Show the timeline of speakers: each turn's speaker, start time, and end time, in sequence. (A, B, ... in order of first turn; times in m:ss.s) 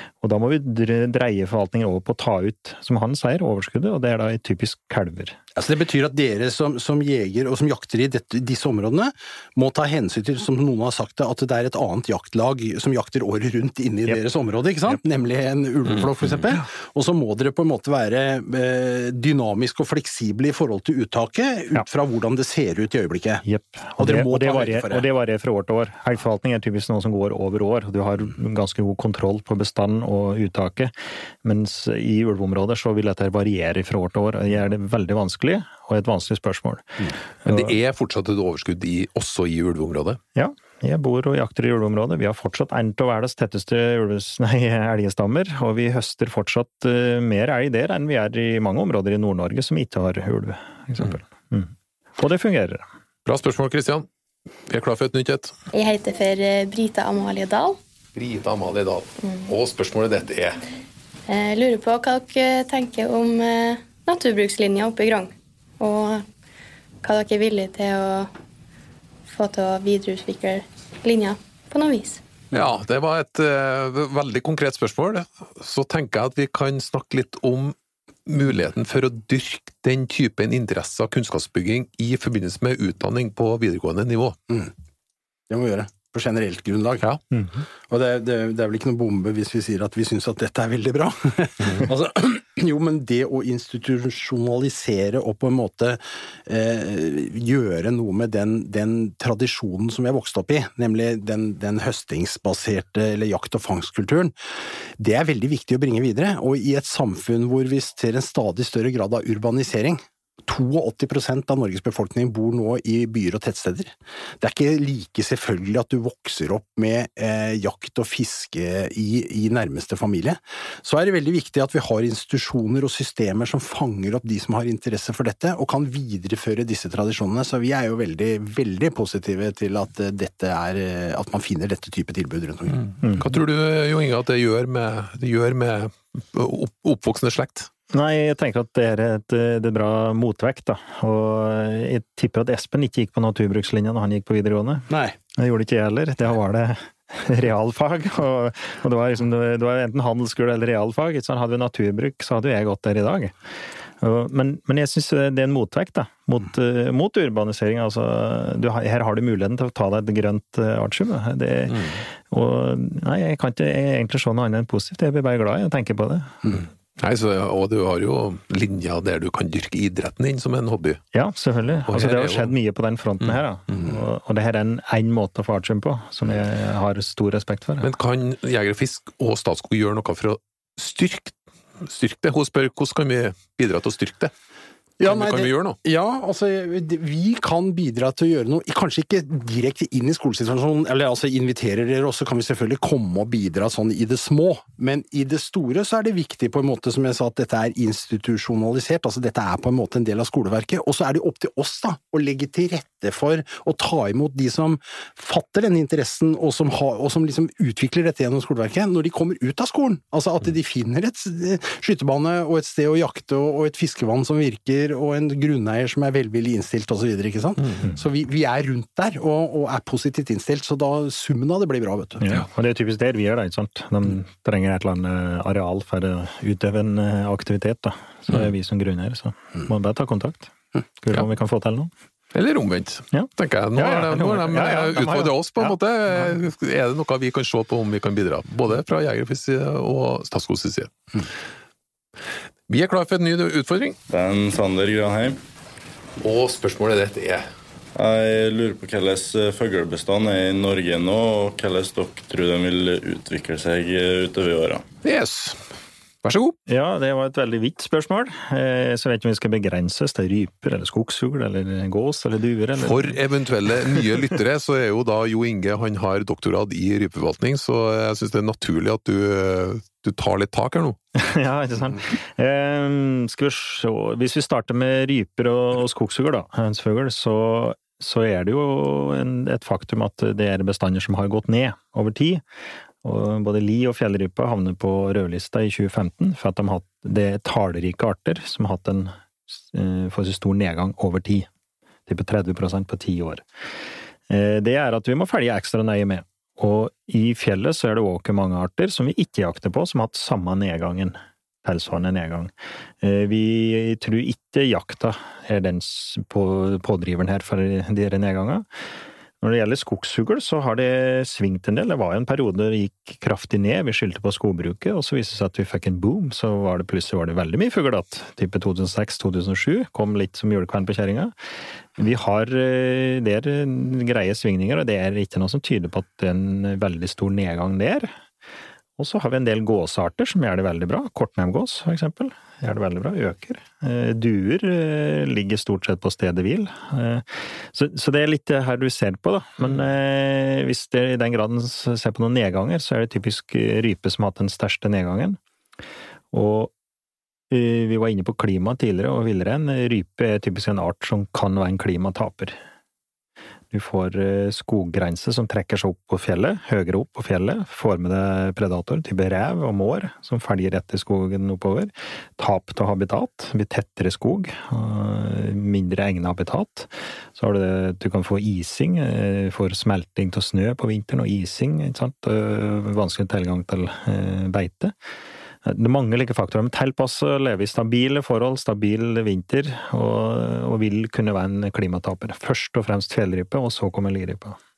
0:00.2-0:05.4 A
0:05.6-0:23.4 B
0:23.4-0:30.9 A
0:24.0-0:25.1 B
0:31.4-0:37.7 A
0:37.4-0:40.2 C
0:40.4-0:52.8 A
0:53.3-0:54.1 C
0:54.7-0:55.5 C
0:55.7-0:57.8 D
0:58.1-1:00.6 C
0:59.2-0:59.5 D
1:01.3-1:06.2 D
1:07.0-1:08.3 D
1:09.3-1:12.2 D
1:12.5-1:17.8 C
1:18.3-1:24.4 C
1:25.5-1:27.1 B
1:27.3-1:27.6 A
1:27.9-1:44.3 B
1:45.0-2:12.8 B
2:12.8-2:17.7 C
2:17.9-2:33.3 A
2:24.9-2:25.1 B
2:34.0-2:46.6 A
2:47.0-2:51.0 C
2:51.1-2:57.9 A
2:51.9-2:52.5 C
2:57.8-3:04.3 C
3:05.0-3:42.2 B
3:05.0-3:05.8 C
3:42.2-3:51.9 A
3:52.3-4:00.9 C
3:53.1-3:55.8 A
4:02.7-4:04.0 C
4:04.1-4:05.4 E
4:06.2-4:07.5 C
4:08.0-4:14.8 E
4:15.0-4:15.6 C
4:16.2-4:16.6 C
4:16.7-4:23.2 A
4:22.8-4:31.0 C
4:31.2-4:42.4 A
4:43.0-4:51.5 A
4:52.1-4:53.4 A
4:54.3-5:08.6 A
5:09.4-5:21.3 A
5:22.0-5:28.1 A
5:29.0-5:45.4 A
5:46.3-5:46.7 A
5:47.5-5:52.6 A
5:53.7-6:14.9 A
6:15.6-6:24.6 A